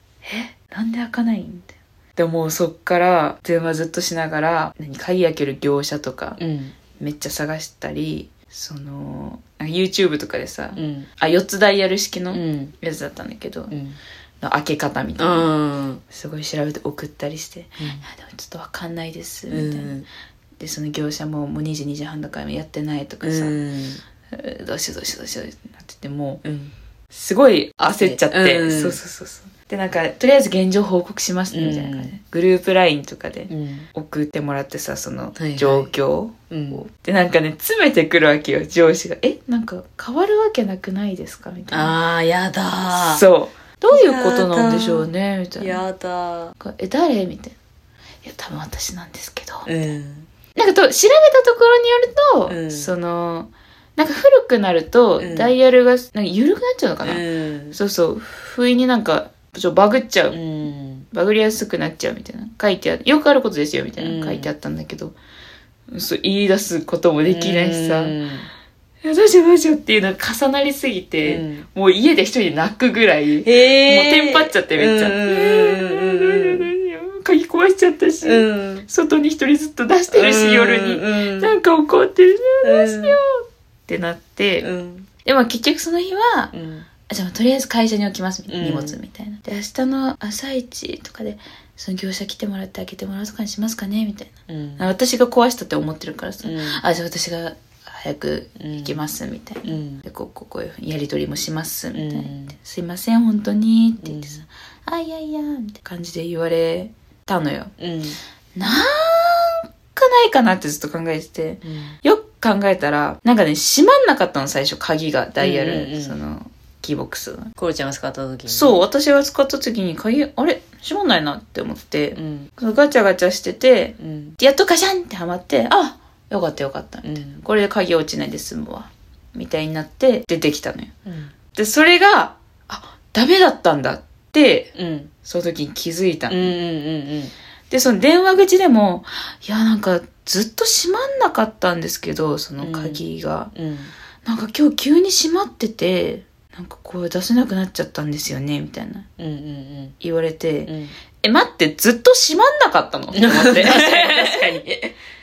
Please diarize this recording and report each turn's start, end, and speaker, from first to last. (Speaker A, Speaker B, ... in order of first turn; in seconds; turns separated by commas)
Speaker A: 0.2-6.4, Speaker B: 6.4-6.8, Speaker A: 7.0-13.8, Speaker B: 10.8-11.1, Speaker B: 12.3-12.7, Speaker B: 13.7-14.0, Speaker A: 14.4-15.5, Speaker B: 15.2-16.0, Speaker A: 16.1-19.9, Speaker B: 17.8-18.0, Speaker B: 19.5-20.1, Speaker A: 20.6-23.6, Speaker B: 23.2-24.0, Speaker A: 24.3-26.4, Speaker B: 26.4-26.7, Speaker A: 27.1-42.0, Speaker B: 27.9-29.0, Speaker B: 31.5-32.1, Speaker B: 33.5-33.9, Speaker B: 35.4-35.9, Speaker B: 36.5-36.8, Speaker B: 41.7-43.3, Speaker A: 42.9-45.8, Speaker B: 43.9-45.1, Speaker B: 45.6-46.5, Speaker A: 46.6-47.5, Speaker A: 48.2-49.7, Speaker B: 49.7-50.3, Speaker A: 50.5-60.4, Speaker B: 52.5-52.9, Speaker B: 55.2-55.5, Speaker B: 57.0-57.8, Speaker B: 60.3-61.1, Speaker A: 61.1-65.2, Speaker B: 64.0-64.5, Speaker A: 65.9-68.2, Speaker B: 67.3-68.5, Speaker A: 69.0-84.7, Speaker B: 71.2-71.7, Speaker B: 73.5-76.7, Speaker B: 78.2-78.9, Speaker B: 80.1-81.5, Speaker B: 82.6-83.2, Speaker B: 84.6-85.1, Speaker A: 85.2-86.5, Speaker B: 86.5-86.9, Speaker A: 87.1-107.7, Speaker B: 88.5-89.0, Speaker B: 94.5-94.8, Speaker B: 96.4-96.8, Speaker B: 98.6-99.0, Speaker B: 99.6-100.0, Speaker B: 102.0-102.6, Speaker B: 104.0-104.4, Speaker B: 107.8-108.2, Speaker A: 108.6-117.5, Speaker B: 111.6-112.0, Speaker B: 115.4-116.2, Speaker B: 117.6-118.8, Speaker A: 118.5-130.9, Speaker B: 122.2-122.5, Speaker B: 124.0-124.4, Speaker B: 127.0-127.4, Speaker B: 131.1-131.3, Speaker A: 131.6-136.5, Speaker B: 134.8-135.1, Speaker B: 136.3-137.3, Speaker A: 137.7-143.5, Speaker B: 142.6-143.9, Speaker A: 144.2-149.1, Speaker B: 149.2-149.9, Speaker A: 150.0-154.6, Speaker B: 150.7-150.9, Speaker B: 153.1-154.9